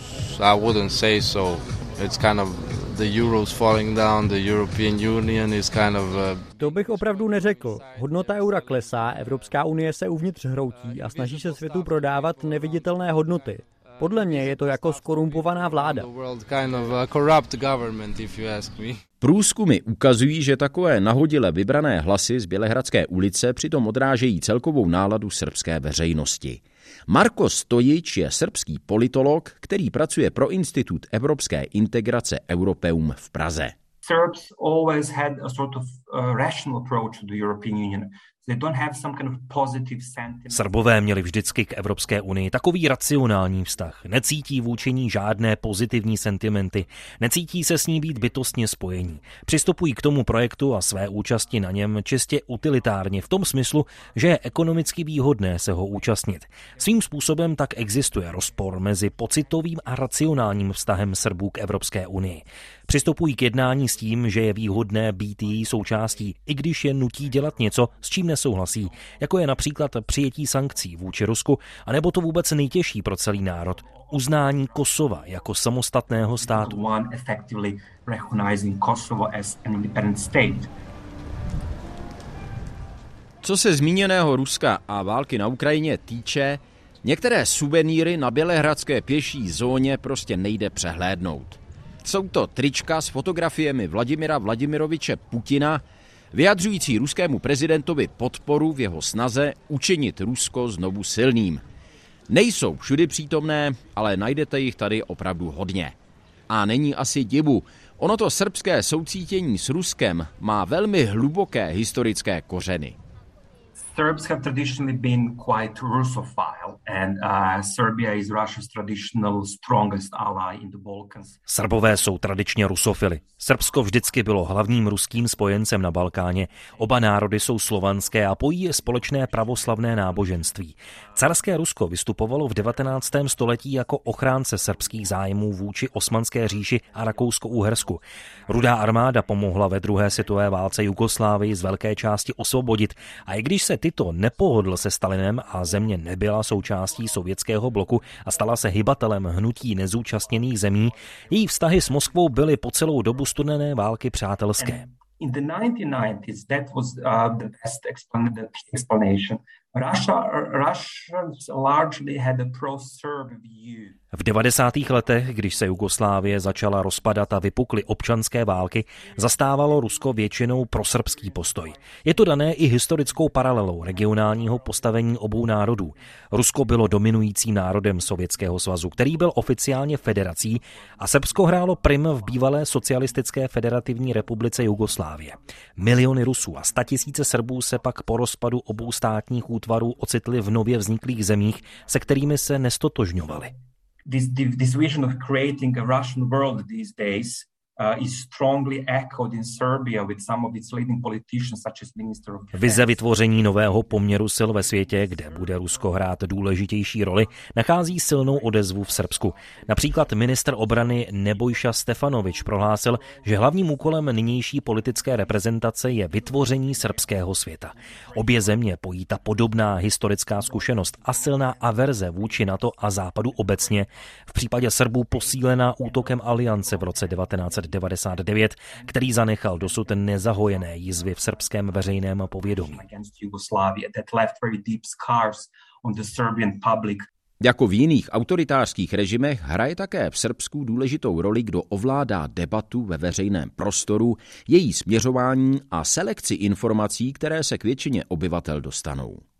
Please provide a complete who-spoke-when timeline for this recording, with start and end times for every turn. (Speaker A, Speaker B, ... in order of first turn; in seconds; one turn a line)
Speaker A: 0.3-9.0
Speaker B: 6.6-16.0
Speaker A: 10.7-12.9
Speaker A: 13.7-19.0
Speaker C: 19.2-33.7
Speaker D: 34.0-40.8
Speaker E: 40.5-76.8
Speaker D: 76.4-80.7
Speaker C: 83.4-101.6
Speaker C: 102.3-105.9
Speaker C: 106.5-113.0
Speaker D: 113.8-121.4
Speaker E: 121.5-154.8
Speaker D: 154.6-164.0
Speaker E: 164.1-193.5
Speaker D: 194.1-203.0
Speaker E: 202.5-232.8
Speaker D: 208.8-210.1
Speaker D: 218.1-218.6
Speaker D: 225.1-227.8
Speaker D: 228.6-237.1
Speaker C: 237.4-249.2